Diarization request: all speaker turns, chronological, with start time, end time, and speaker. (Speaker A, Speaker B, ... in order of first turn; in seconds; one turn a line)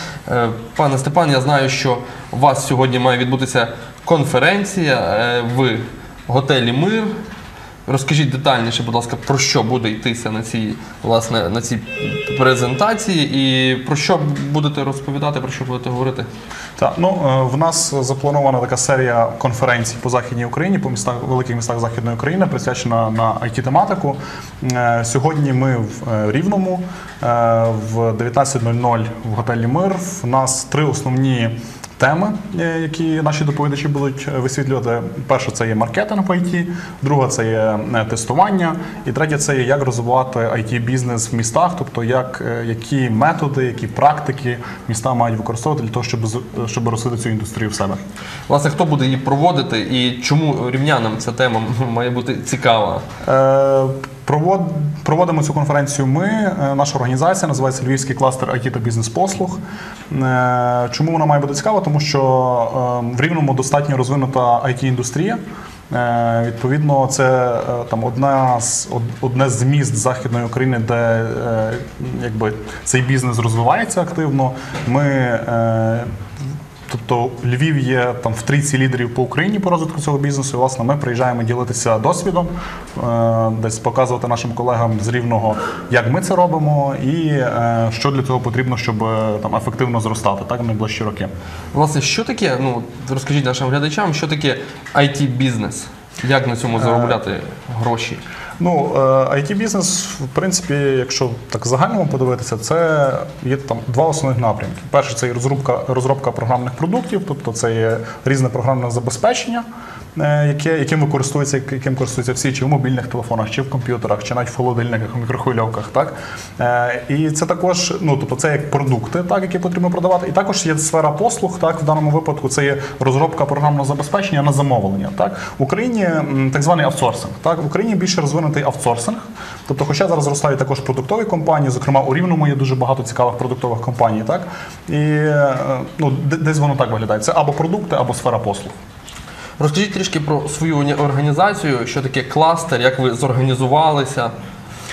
Speaker A: 0.3-7.1
Speaker A: 7.8-16.3
Speaker B: 16.8-48.0
Speaker A: 48.5-53.0
Speaker B: 53.2-65.4
Speaker B: 65.9-76.1
Speaker B: 76.9-91.3
Speaker A: 91.7-98.2
Speaker B: 96.8-97.2
Speaker B: 98.6-109.6
Speaker B: 110.2-138.7
Speaker A: 139.6-144.3